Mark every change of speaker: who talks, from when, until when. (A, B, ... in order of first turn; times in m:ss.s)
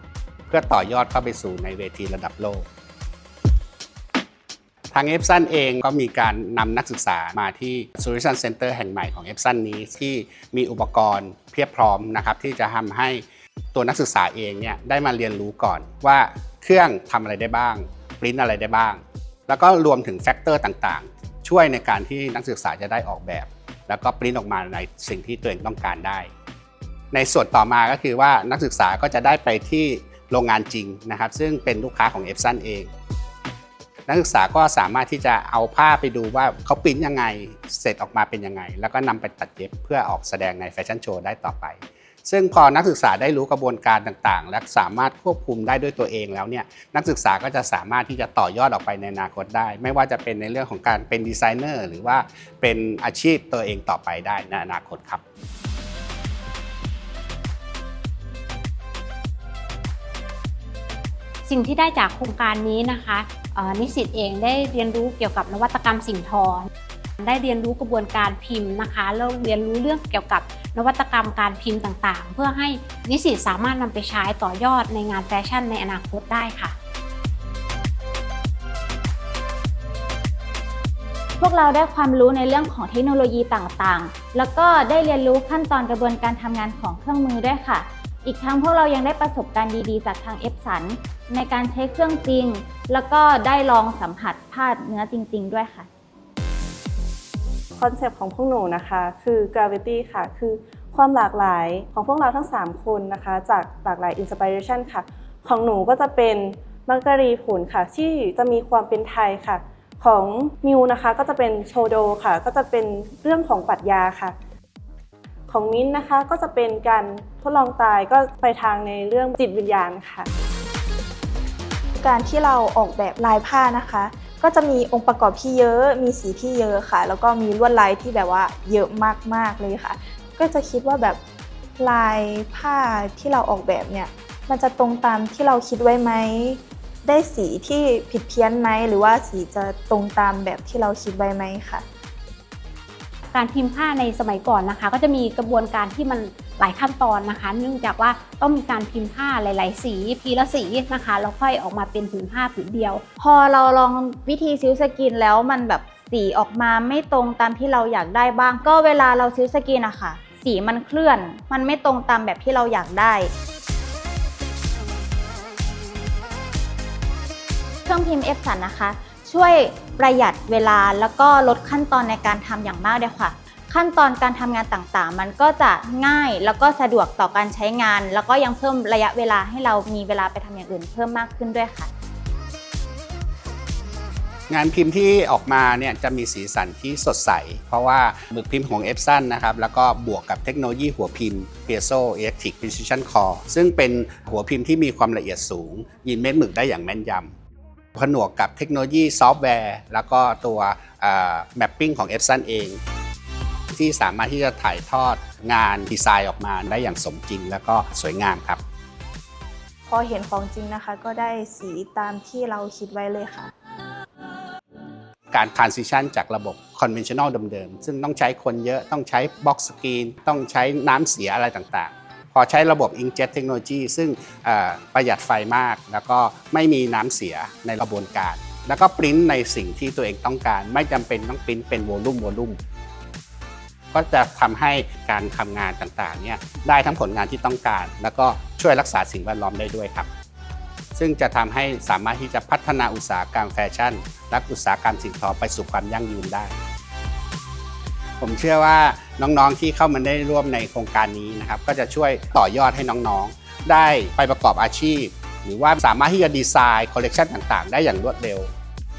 0:00.5-0:02.6 A
0:04.9-0:26.3 A
0:27.1-0:32.9 A
0:34.1-0:55.2 A
1:01.4-1:06.7 B
1:07.2-1:16.7 B
1:21.4-1:35.9 C
1:37.8-1:54.3 D
1:55.5-2:00.3 D
2:02.0-2:11.2 E
2:11.8-2:21.8 E
2:23.3-2:33.0 B
2:33.2-2:43.3 C
2:47.8-3:01.9 C
3:04.5-3:17.3 A
3:18.0-3:22.8 A
3:23.7-3:28.6 A
3:29.9-3:33.5 E
3:35.3-3:52.6 A
3:53.9-4:00.1 A
4:01.0-4:06.5 A
4:08.2-4:18.5 A